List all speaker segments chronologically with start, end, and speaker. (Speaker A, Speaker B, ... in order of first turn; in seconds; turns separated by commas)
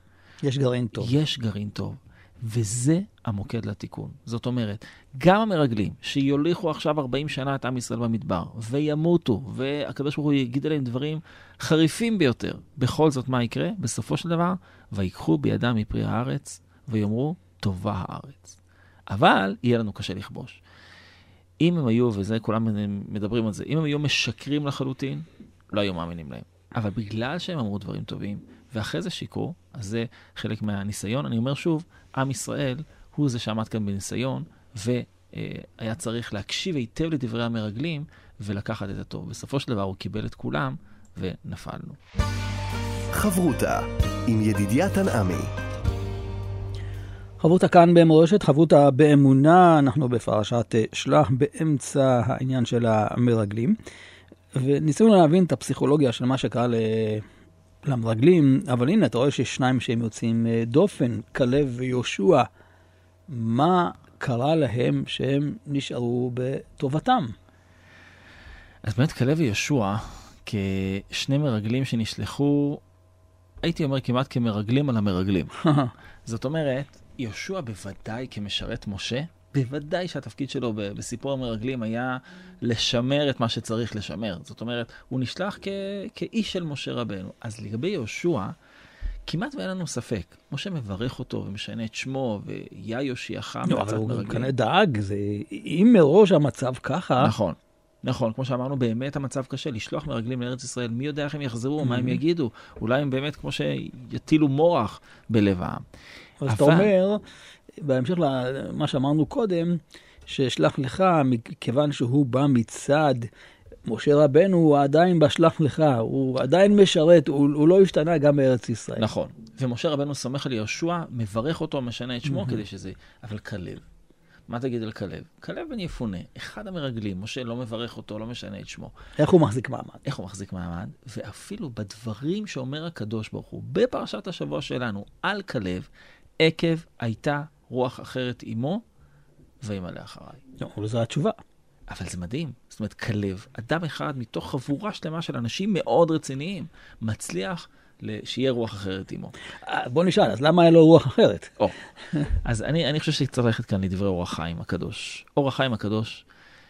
Speaker A: 0.4-1.1, Speaker B: 1.0-18.6, Speaker B: 19.1-20.6, Speaker B: 21.6-42.0, Speaker C: 43.1-45.5, Speaker A: 47.4-53.8, Speaker A: 54.5-57.3, Speaker A: 57.9-62.5, Speaker A: 63.3-67.3, Speaker B: 68.8-72.8, Speaker B: 73.6-75.5, Speaker A: 75.5-75.9, Speaker B: 76.2-88.5, Speaker B: 89.2-94.5, Speaker A: 93.6-97.3, Speaker B: 97.2-105.8, Speaker A: 101.8-102.2, Speaker A: 106.4-107.2, Speaker B: 106.5-106.9, Speaker A: 107.7-113.3, Speaker A: 113.8-119.1, Speaker B: 119.0-123.8, Speaker A: 122.3-122.6, Speaker B: 124.5-128.9, Speaker A: 129.2-130.0, Speaker B: 130.0-135.9, Speaker B: 136.4-138.8, Speaker B: 139.6-140.4, Speaker A: 140.6-141.4, Speaker B: 141.9-149.3, Speaker A: 149.6-151.5, Speaker B: 152.4-156.2